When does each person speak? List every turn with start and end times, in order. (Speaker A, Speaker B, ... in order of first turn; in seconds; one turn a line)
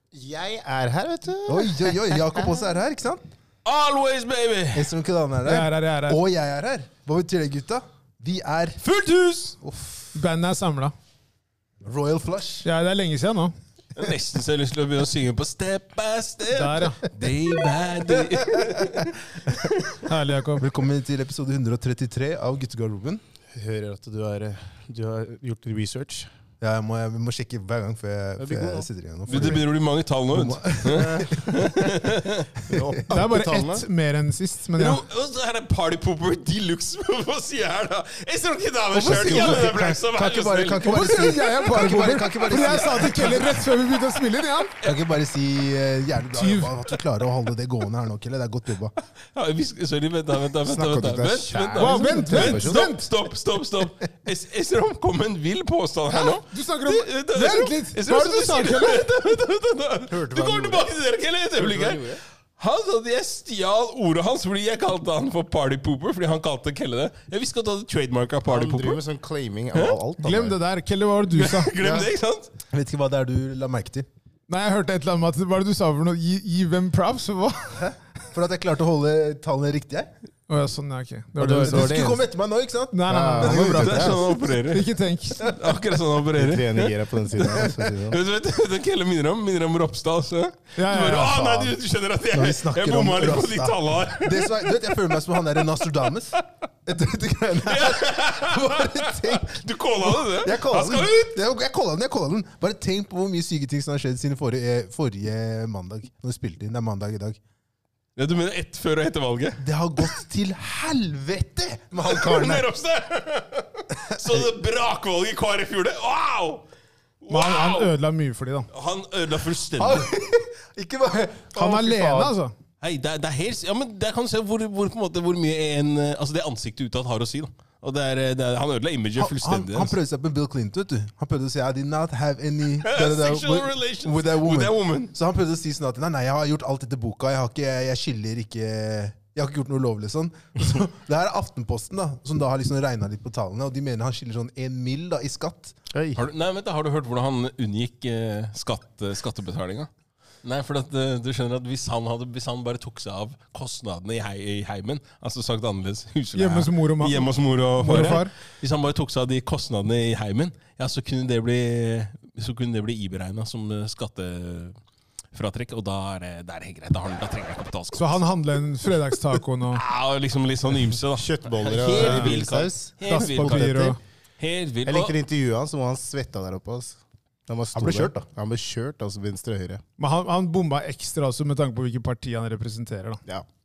Speaker A: 0.1-2.6
Speaker B: 1.5-3.2
Speaker C: 3.6-4.9
Speaker B: 4.7-8.8
Speaker D: 5.4-6.2
Speaker C: 8.8-9.6
Speaker B: 9.6-10.2
Speaker D: 10.1-10.9
Speaker B: 11.8-12.7
Speaker D: 12.6-13.5
Speaker C: 13.9-19.9
Speaker D: 16.5-17.0
Speaker D: 20.0-20.7
Speaker B: 20.6-23.2
Speaker A: 23.5-26.3
Speaker B: 26.6-29.7
Speaker A: 28.4-29.6
Speaker C: 29.3-32.5
Speaker B: 30.3-31.4
Speaker A: 31.0-32.0
Speaker A: 32.6-33.9
Speaker D: 33.1-35.0
Speaker C: 34.8-41.4
Speaker B: 38.9-43.6
Speaker D: 39.1-39.7
Speaker D: 40.9-44.7
Speaker C: 42.5-43.5
Speaker B: 44.8-49.0
Speaker D: 46.4-46.8
Speaker C: 49.3-69.0
Speaker A: 50.6-52.8
Speaker D: 51.8-53.0
Speaker D: 56.1-59.1
Speaker A: 60.1-60.9
Speaker A: 61.6-62.2
Speaker A: 68.5-70.6
Speaker D: 70.2-71.8
Speaker C: 71.3-72.5
Speaker A: 71.8-72.1
Speaker B: 72.7-74.1
Speaker D: 74.5-77.8
Speaker B: 77.8-80.1
Speaker D: 80.5-82.2
Speaker B: 81.4-84.4
Speaker A: 81.4-82.2
Speaker D: 82.9-84.2
Speaker A: 83.1-84.2
Speaker C: 83.8-84.9
Speaker D: 84.7-85.5
Speaker C: 85.4-95.2
Speaker A: 86.3-88.2
Speaker B: 87.4-87.9
Speaker D: 90.8-91.7
Speaker B: 92.3-107.4
Speaker C: 97.6-101.4
Speaker C: 108.2-110.2
Speaker B: 109.6-112.7
Speaker C: 112.0-116.6
Speaker C: 117.2-117.9
Speaker D: 117.3-118.7
Speaker C: 118.7-120.1
Speaker B: 119.8-122.2
Speaker D: 121.5-122.5
Speaker A: 121.8-122.3
Speaker C: 122.8-129.9
Speaker B: 129.2-145.8
Speaker C: 132.8-135.1
Speaker A: 145.9-146.2
Speaker C: 146.2-149.9
Speaker C: 150.4-164.8
Speaker D: 156.3-158.3
Speaker C: 165.3-168.2
Speaker D: 168.0-169.8
Speaker C: 169.7-175.1
Speaker A: 171.2-172.9
Speaker D: 171.9-172.4
Speaker D: 173.1-174.0
Speaker A: 174.9-179.8
Speaker B: 177.8-178.3
Speaker D: 180.0-183.2